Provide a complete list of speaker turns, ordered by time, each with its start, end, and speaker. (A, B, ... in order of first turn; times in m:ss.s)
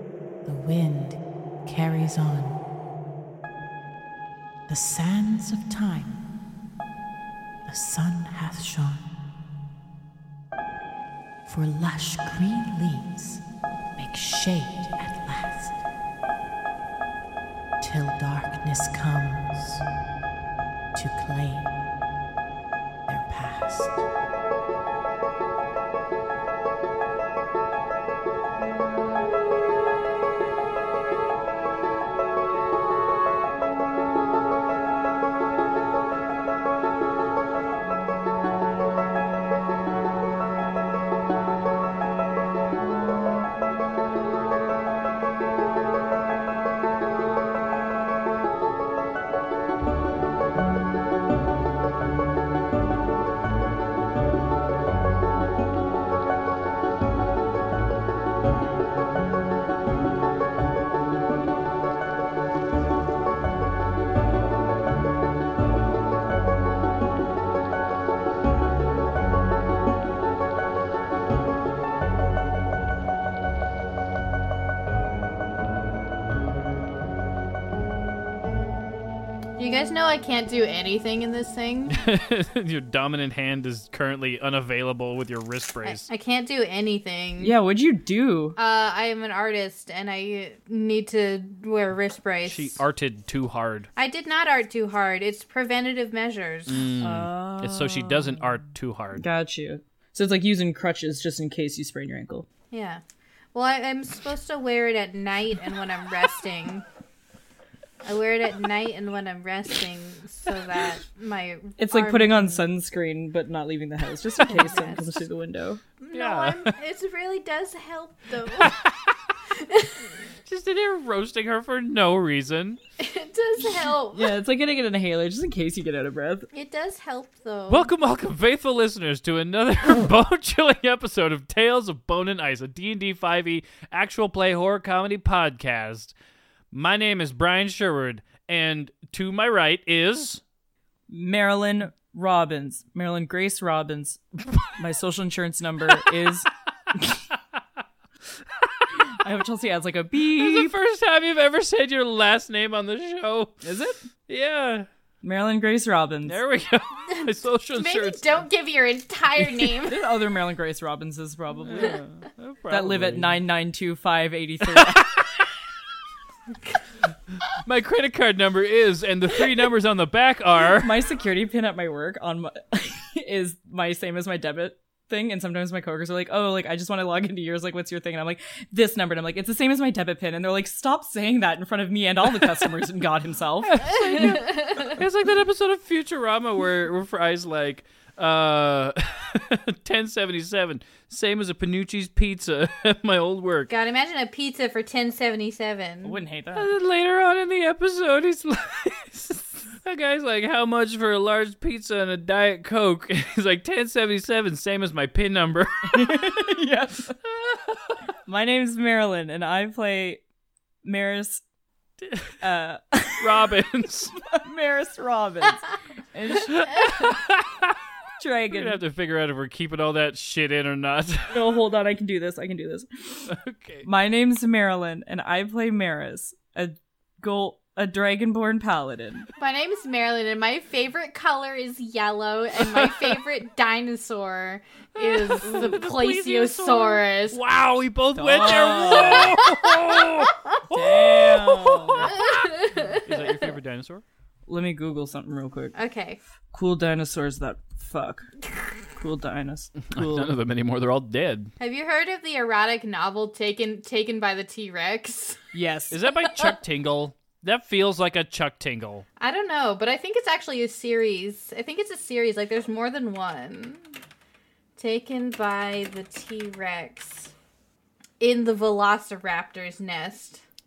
0:00.4-0:02.6 A
0:04.7-0:06.2 A
0:07.6-0:09.1 A
0:11.4-0:13.4 A
0:14.0-0:15.8 A
0:17.8-0:19.8 A
0:20.9-0:21.7 A
0:23.1-0:24.0 A
1:19.6-1:22.0 B
1:21.9-1:26.1 C
1:25.8-1:27.6 B
1:27.4-1:28.6 D
1:28.6-1:32.8 B
1:32.5-1:33.9 C
1:34.0-1:36.9 B
1:36.7-1:39.2 C
1:37.0-1:38.4 D
1:39.2-1:42.4 D
1:42.7-1:43.0 B
1:43.5-1:46.8 B
1:48.0-1:52.7 B
1:51.8-1:55.8 D
1:54.4-1:55.2 B
1:56.0-1:58.7 B
1:56.1-1:56.7 C
1:58.6-1:59.1 C
1:59.6-2:00.1 B
2:00.4-2:02.8 C
2:03.0-2:04.3 B
2:04.1-2:06.5 D
2:06.5-2:07.9 B
2:07.7-2:16.1 C
2:16.7-2:20.4 C
2:21.1-2:24.2 D
2:24.8-2:26.5 D
2:29.1-2:30.7 D
2:30.2-2:33.6 C
2:33.6-2:34.0 D
2:34.3-2:34.9 C
2:35.2-2:36.4 D
2:36.3-2:38.4 C
2:37.1-2:40.0 B
2:39.8-2:42.0 D
2:41.6-2:43.4 C
2:42.7-2:45.1 D
2:44.7-2:45.2 C
2:47.5-2:51.1 C
2:50.8-3:04.1 D
3:03.6-3:13.7 C
3:04.1-3:05.0 B
3:13.7-3:16.2 B
3:16.0-3:16.7 D
3:16.5-3:26.3 C
3:25.9-3:27.2 D
3:27.4-3:27.7 C
3:28.3-3:30.2 D
3:30.8-3:31.4 D
3:32.0-3:32.3 C
3:32.4-3:33.5 D
3:33.2-3:34.2 C
3:34.2-3:36.9 D
3:36.5-3:37.8 C
3:38.2-3:38.8 D
3:38.5-3:41.4 C
3:41.3-3:43.3 D
3:43.3-3:43.9 C
3:43.8-3:49.3 D
3:49.4-3:57.4 B
3:55.0-4:00.4 C
3:58.2-3:59.4 D
3:59.1-3:59.9 B
4:00.7-4:02.1 D
4:01.6-4:04.0 C
4:02.0-4:03.5 B
4:04.5-4:05.8 D
4:05.8-4:06.2 B
4:06.5-4:10.3 D
4:09.9-4:11.5 C
4:11.6-4:15.4 B
4:15.5-4:16.0 D
4:15.9-4:19.0 C
4:19.2-4:23.8 B
4:24.8-4:27.3 B
4:28.2-4:30.4 B